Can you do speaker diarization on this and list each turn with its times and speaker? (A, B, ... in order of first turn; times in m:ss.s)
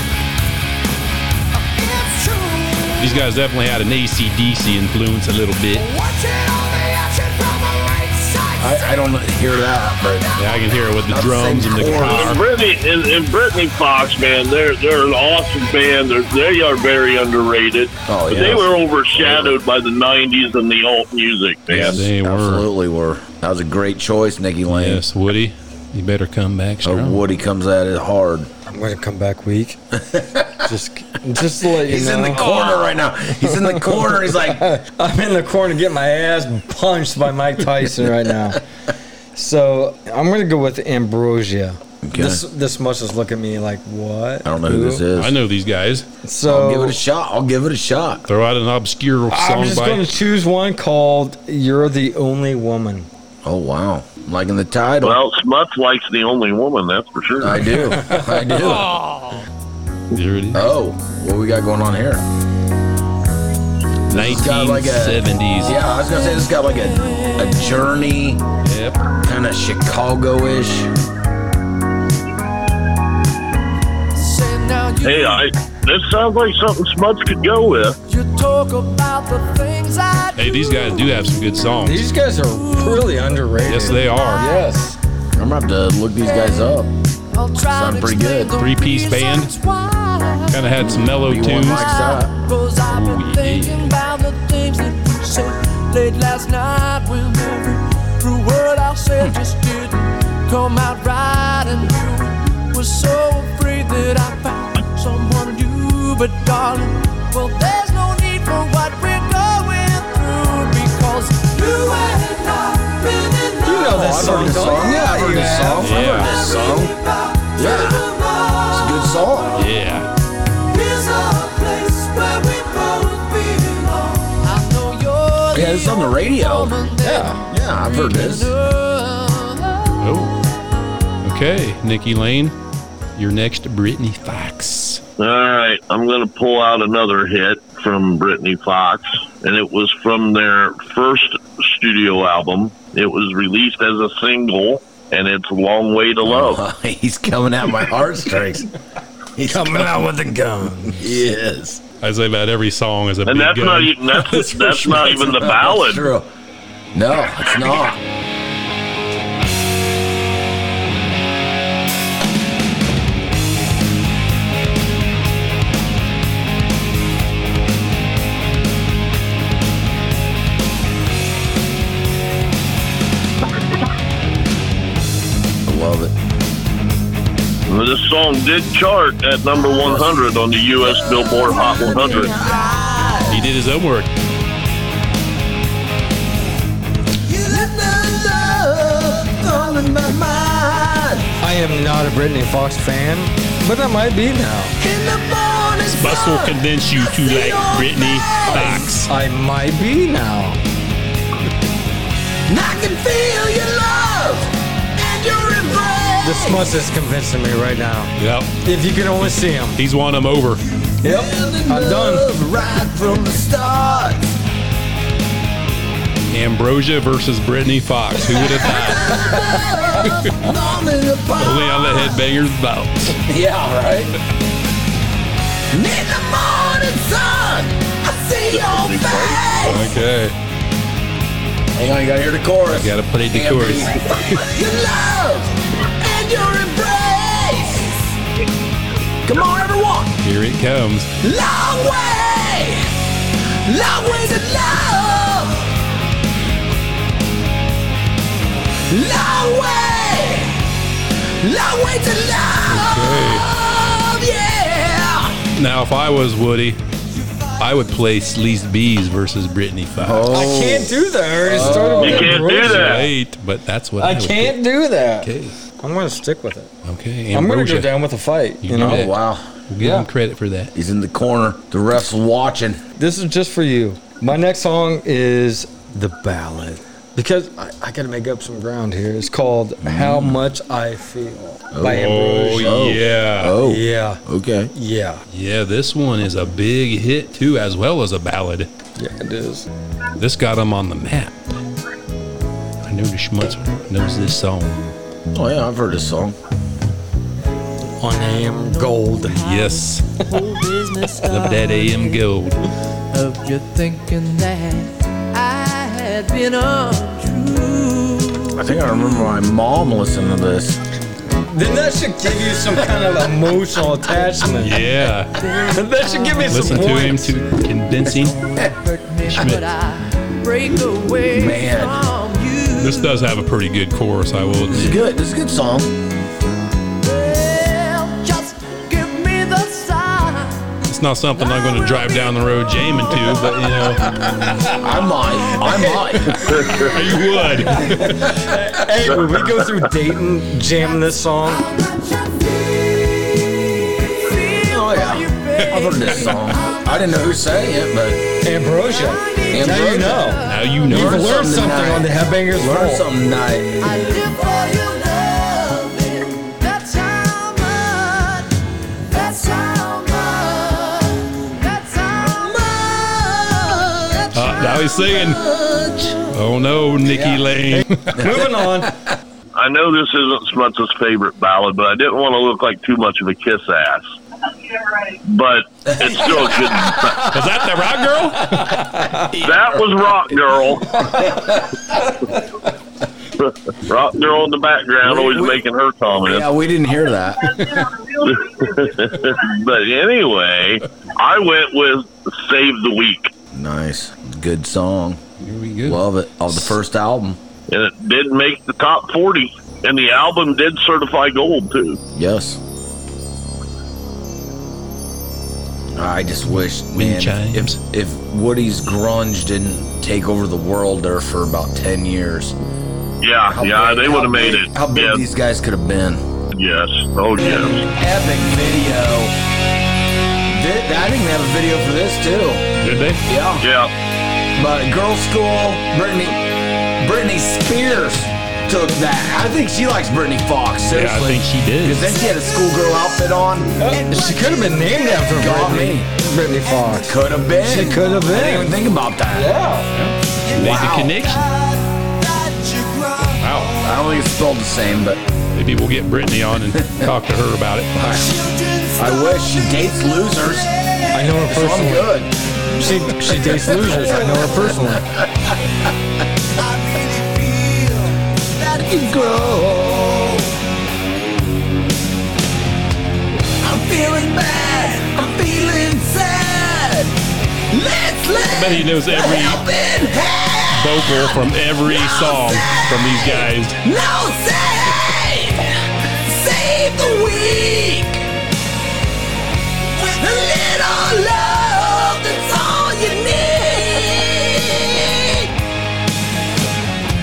0:01.7-0:03.3 A
0:03.0-0:05.9 B
0:05.7-0:09.0 A
0:08.6-0:10.5 C
0:10.4-0:12.4 B
0:11.0-0:12.4 C
0:12.0-0:22.0 D
0:18.1-0:19.6 C
0:21.7-0:25.0 C
0:21.7-0:22.7 B
0:24.7-0:27.2 B
0:26.8-0:28.5 C
0:28.7-0:29.8 E
0:29.9-0:30.7 C
0:30.6-0:32.7 E
0:31.7-0:34.7 C
0:33.3-0:38.6 E
0:39.4-0:45.0 E
0:42.0-0:42.4 C
0:44.4-0:45.4 C
0:45.1-0:46.1 B
0:46.2-0:47.0 E
0:46.4-0:48.2 C
0:48.3-0:50.1 B
0:49.3-0:53.1 E
0:53.4-0:55.2 C
0:55.0-0:57.7 D
0:57.4-0:59.0 C
0:58.6-0:59.3 B
1:00.1-1:00.6 B
1:00.5-1:02.2 C
1:04.1-1:05.8 B
1:04.1-1:08.4 C
1:08.6-1:09.0 B
1:09.1-1:10.9 C
1:14.1-1:15.5 A
1:15.0-1:18.0 D
1:18.1-1:21.2 A
1:20.4-1:22.1 B
1:21.8-1:25.0 E
1:22.5-1:23.2 A
1:23.7-1:24.4 B
1:24.1-1:24.5 A
1:25.4-1:26.9 C
1:26.3-1:26.7 A
1:27.3-1:30.7 A
1:27.6-1:28.6 C
1:28.6-1:29.5 B
1:30.5-1:31.9 B
1:30.8-1:32.3 C
1:31.8-1:54.8 A
1:32.9-1:33.9 B
1:53.6-1:55.9 E
1:53.9-1:56.9 C
1:55.8-1:56.3 B
1:55.8-1:59.6 A
1:57.6-1:58.1 C
1:58.7-1:59.6 C
1:59.6-2:00.1 B
2:00.7-2:10.0 A
2:05.5-2:06.8 C
2:07.0-2:07.4 E
2:07.4-2:08.6 C
2:10.0-2:10.4 B
2:11.2-2:12.6 B
2:13.2-2:15.0 B
2:15.2-2:26.6 D
2:26.2-2:28.7 C
2:29.4-2:30.1 C
2:29.5-2:31.2 E
2:31.0-2:31.8 C
2:32.0-2:34.4 B
2:33.3-2:36.1 D
2:34.5-2:36.3 C
2:36.9-2:38.0 C
2:55.7-2:56.2 C
2:57.7-3:02.3 D
2:59.8-3:00.1 C
3:00.9-3:03.5 C
3:03.3-3:04.1 B
3:07.3-3:11.3 C
3:11.4-3:14.8 E
3:14.8-3:18.9 C
3:15.9-3:19.1 B
3:18.5-3:20.6 E
3:22.5-3:26.7 C
3:26.2-3:29.8 E
3:28.2-3:28.6 B
3:29.8-3:30.6 B
3:31.0-3:32.3 E
3:31.0-3:34.3 C
3:36.3-3:39.2 B
3:38.6-3:42.2 C
3:40.0-3:40.4 B
3:41.4-3:43.2 B
3:43.3-3:44.1 C
3:45.7-3:49.9 C
3:48.5-3:49.4 D
3:49.6-3:50.4 B
3:51.8-3:58.0 C
3:52.8-3:54.4 B
3:59.2-4:00.2 C
4:00.2-4:01.1 B
4:01.2-4:02.9 C
4:03.6-4:05.7 C
4:08.9-4:10.6 C
4:11.4-4:15.4 C
4:12.7-4:13.5 B
4:15.6-4:16.8 B
4:17.6-4:20.3 B
4:20.0-4:22.4 C
4:20.3-4:23.1 E
4:21.6-4:24.6 B
4:22.0-4:23.1 D
4:24.0-4:26.7 E
4:25.2-4:25.6 B
4:26.8-4:27.9 B
4:27.3-4:29.1 E
4:28.6-4:29.2 B
4:28.8-4:29.4 C
4:29.7-4:30.7 B
4:29.8-4:30.1 E
4:30.8-4:32.8 C
4:33.0-4:42.9 E
4:39.8-4:40.4 C
4:41.7-4:44.7 C
4:41.9-4:43.6 B
4:43.6-4:45.2 E
4:45.3-4:48.7 B
4:49.0-4:49.7 E
4:50.2-4:51.4 B
4:52.8-4:54.9 B
4:55.3-4:56.4 C
4:58.0-4:59.4 E
4:58.1-5:02.3 A
4:59.4-5:00.1 B
5:01.2-5:02.6 B
5:03.1-5:08.6 A
5:08.6-5:10.8 C
5:11.4-5:14.9 E
5:14.6-5:15.4 B
5:15.4-5:17.1 A
5:15.7-5:17.4 E
5:16.5-5:18.4 B
5:18.5-5:23.3 A
5:18.5-5:18.7 C
5:19.3-5:19.6 B
5:21.3-5:22.0 C
5:22.8-5:25.0 B
5:24.7-5:25.9 C
5:27.0-5:30.6 A
5:30.9-5:34.2 B
5:34.7-5:36.7 C
5:34.9-5:36.0 A
5:36.5-5:36.9 D
5:36.8-5:38.2 B
5:37.6-5:41.7 E
5:38.2-5:38.6 C
5:41.5-5:47.2 A
5:44.6-5:48.3 C
5:48.4-5:53.0 E
5:48.7-5:50.9 A
5:49.5-5:53.9 C
5:50.4-5:51.3 B
5:53.8-6:02.6 A
6:02.2-6:06.4 C
6:04.3-6:05.4 B
6:04.4-6:04.8 A
6:06.3-6:08.3 B
6:07.0-6:07.6 C
6:07.7-6:09.0 E
6:08.2-6:08.5 C
6:09.6-6:14.0 D
6:15.2-6:17.3 D
6:15.9-6:17.1 C
6:17.1-6:19.2 B
6:18.4-6:19.3 E
6:19.4-6:19.8 C
6:19.4-6:21.1 D
6:21.0-6:22.0 C
6:23.4-6:26.5 D
6:25.0-6:25.6 C
6:26.2-6:27.7 C
6:28.2-6:33.3 D
6:33.5-6:35.2 C
6:35.4-6:36.8 B
6:35.8-6:37.4 C
6:37.7-6:42.0 D
6:42.2-6:42.6 C
6:46.0-6:52.6 C
6:47.0-6:47.8 B
6:53.2-6:55.2 D
6:53.5-6:56.2 C
6:56.5-6:57.8 D
6:57.4-6:59.4 C
7:00.5-7:02.7 C
7:02.8-7:03.2 B
7:03.3-7:03.7 C
7:03.6-7:03.9 D
7:04.6-7:06.4 C
7:07.0-7:13.9 C
7:10.9-7:12.1 B
7:13.8-7:18.8 E
7:13.8-7:15.0 A
7:15.3-7:16.1 C
7:16.9-7:19.5 C
7:19.3-7:19.9 E
7:19.9-7:21.5 B
7:20.4-7:24.0 A
7:20.5-7:21.2 C
7:23.4-7:23.8 B
7:23.8-7:25.2 C
7:25.6-7:28.0 B
7:26.8-7:27.1 C
7:28.0-7:28.3 C
7:28.1-7:31.5 A
7:29.0-7:30.7 C
7:31.1-7:32.1 E
7:31.5-7:32.3 C
7:32.8-7:35.1 E
7:33.0-7:34.4 A
7:33.3-7:35.8 C
7:36.6-7:38.3 A
7:38.6-7:40.5 C
7:43.6-7:47.2 C
7:47.7-7:58.2 C
7:48.5-7:49.6 B
7:50.7-7:53.8 B
8:00.0-8:05.5 C